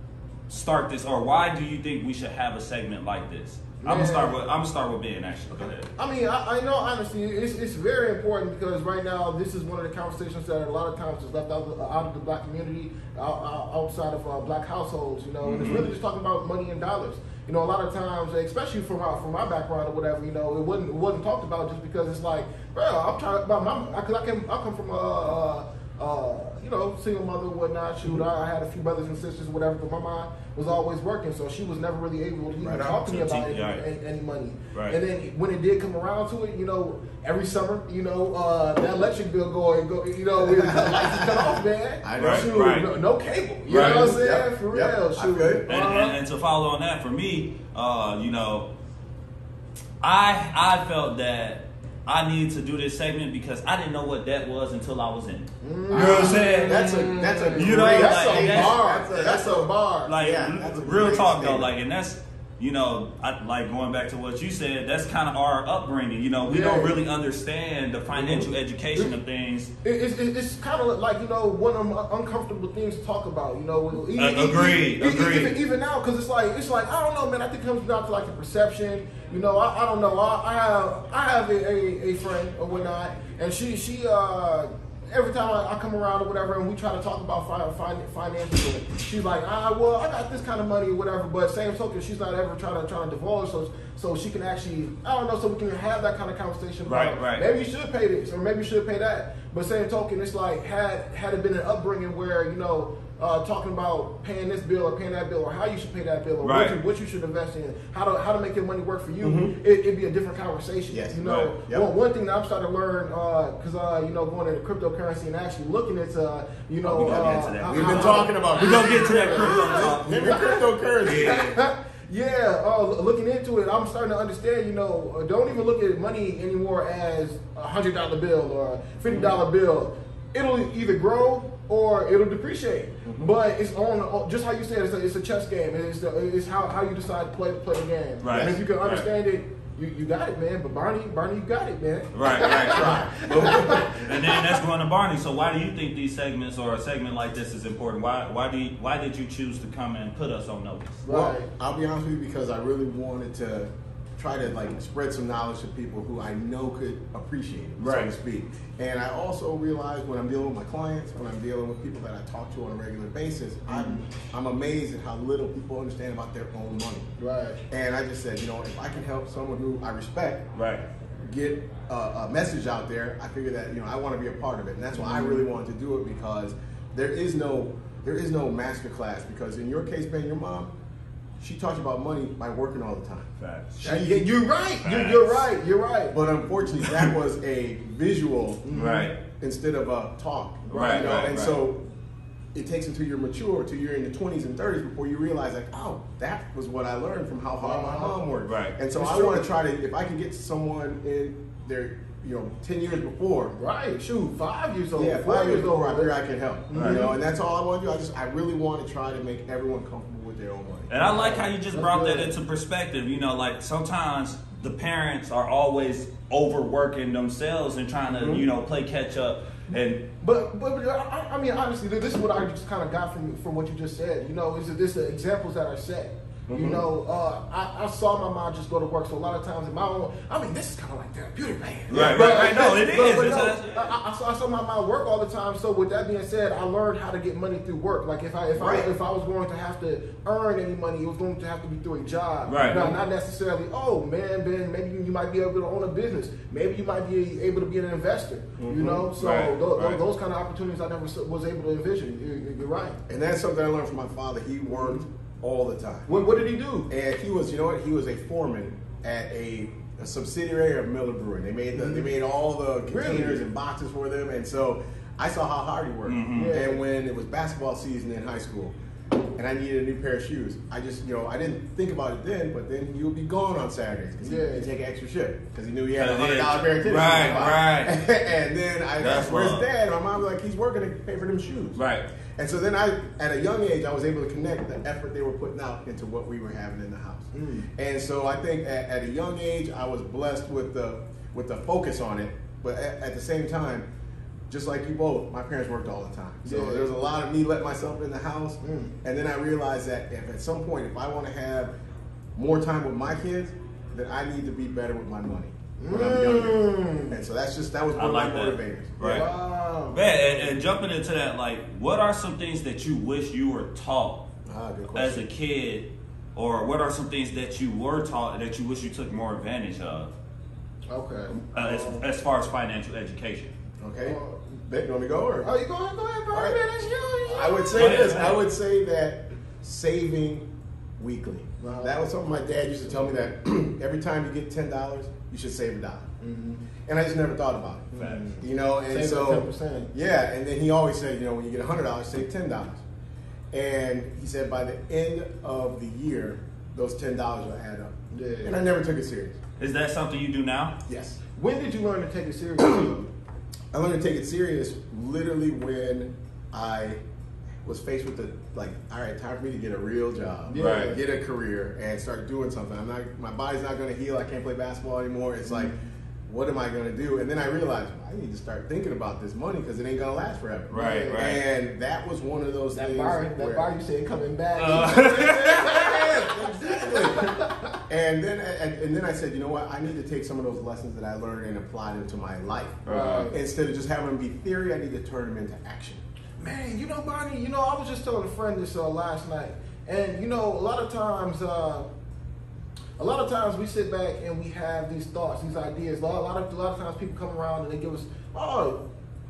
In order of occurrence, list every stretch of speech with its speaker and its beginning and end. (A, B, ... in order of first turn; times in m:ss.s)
0:00.5-0:05.9 A
0:03.8-0:04.4 B
0:05.5-0:46.2 B
0:15.4-0:15.9 A
0:32.6-0:33.0 C
0:33.0-0:33.8 A
0:40.4-0:42.6 C
0:42.2-0:42.9 A
0:43.7-0:44.2 A
0:43.7-0:45.6 C
0:45.7-0:48.7 A
0:50.0-0:56.8 A
0:55.6-1:00.1 B
0:55.9-1:01.7 C
0:57.6-0:58.8 A
1:00.1-1:09.7 A
1:06.5-1:07.0 B
1:09.8-2:24.6 B
1:14.2-1:15.6 A
1:36.9-1:37.4 A
1:46.4-1:46.8 A
1:49.2-1:49.5 C
1:50.9-1:51.9 C
1:51.2-1:51.5 A
1:56.8-2:00.5 A
1:57.6-2:01.5 C
2:01.0-2:01.6 A
2:09.1-2:09.4 C
2:13.0-2:13.3 C
2:18.2-2:19.1 A
2:18.3-2:18.6 C
2:22.1-2:31.0 A
2:22.4-2:24.0 C
2:31.0-2:31.5 B
2:31.1-2:47.1 C
2:37.8-2:38.1 A
2:43.7-2:44.0 B
2:47.2-2:47.6 B
2:47.7-2:50.5 C
2:50.6-2:50.8 A
2:51.2-3:00.7 C
2:55.0-2:55.4 B
3:01.4-3:03.3 C
3:03.4-3:04.1 A
3:03.8-3:06.2 B
3:03.8-3:04.2 C
3:04.8-3:05.5 A
3:06.1-3:08.7 C
3:06.8-3:07.1 A
3:08.6-3:09.1 B
3:08.7-3:09.1 A
3:09.3-3:11.8 C
3:10.6-3:11.1 B
3:10.7-3:11.6 A
3:12.5-3:23.6 C
3:17.6-3:18.2 B
3:18.5-3:18.8 A
3:19.0-3:19.4 B
3:23.5-3:26.1 B
3:25.0-3:30.9 C
3:26.7-3:27.2 B
3:26.8-3:27.0 A
3:30.9-3:40.0 A
3:31.0-3:32.3 B
3:38.1-3:38.5 C
3:39.7-4:13.0 B
3:46.5-3:46.8 C
3:51.9-3:52.8 C
3:51.9-3:53.9 A
3:58.5-3:58.9 C
4:02.5-4:02.8 A
4:02.6-4:03.0 C
4:08.6-4:09.1 C
4:09.2-4:10.0 A
4:13.1-4:16.3 C
4:14.7-4:15.0 B
4:16.1-4:16.9 B
4:16.9-4:28.7 C
4:21.8-4:22.1 B
4:22.9-4:23.4 B
4:26.1-4:26.6 A
4:26.3-4:26.8 B
4:29.4-4:41.8 C
4:34.2-4:34.7 B
4:36.0-4:38.0 A
4:37.0-4:37.5 B
4:39.0-4:39.7 A
4:41.8-4:42.1 A
4:42.4-4:53.9 C
4:47.3-4:47.7 B
4:54.5-5:01.7 C
4:56.4-4:56.9 B
4:58.6-4:58.9 B
5:02.4-5:09.3 C
5:05.8-5:07.2 B
5:08.0-5:09.3 A
5:09.0-5:10.2 B
5:09.9-5:14.2 A
5:14.5-5:15.3 C
5:15.0-5:20.1 A
5:20.9-5:22.0 B
5:21.4-5:23.5 A
5:23.8-5:25.5 C
5:24.0-5:24.4 B
5:25.4-5:28.2 B
5:26.3-5:26.6 C
5:27.3-5:30.5 C
5:27.7-5:28.4 A
5:31.0-5:36.1 C
5:31.6-5:32.0 B
5:36.2-5:36.6 B
5:36.9-5:42.8 C
5:37.9-5:39.9 B
5:38.0-5:38.3 A
5:43.5-5:49.4 C
5:48.1-5:48.6 B
5:49.6-5:50.7 A
5:50.9-5:51.2 C
5:51.4-5:53.1 B
5:52.6-5:53.0 C
5:53.7-5:57.0 C
5:57.6-6:05.7 C
6:00.5-6:01.0 B
6:00.6-6:00.9 A
6:06.3-6:13.7 C
6:10.7-6:11.4 A
6:10.7-6:11.2 B
6:12.7-6:17.8 B
6:14.6-6:16.0 A
6:15.7-6:26.0 C
6:22.9-6:23.3 A
6:22.9-6:23.4 B
6:26.4-6:31.9 B
6:33.0-6:38.8 B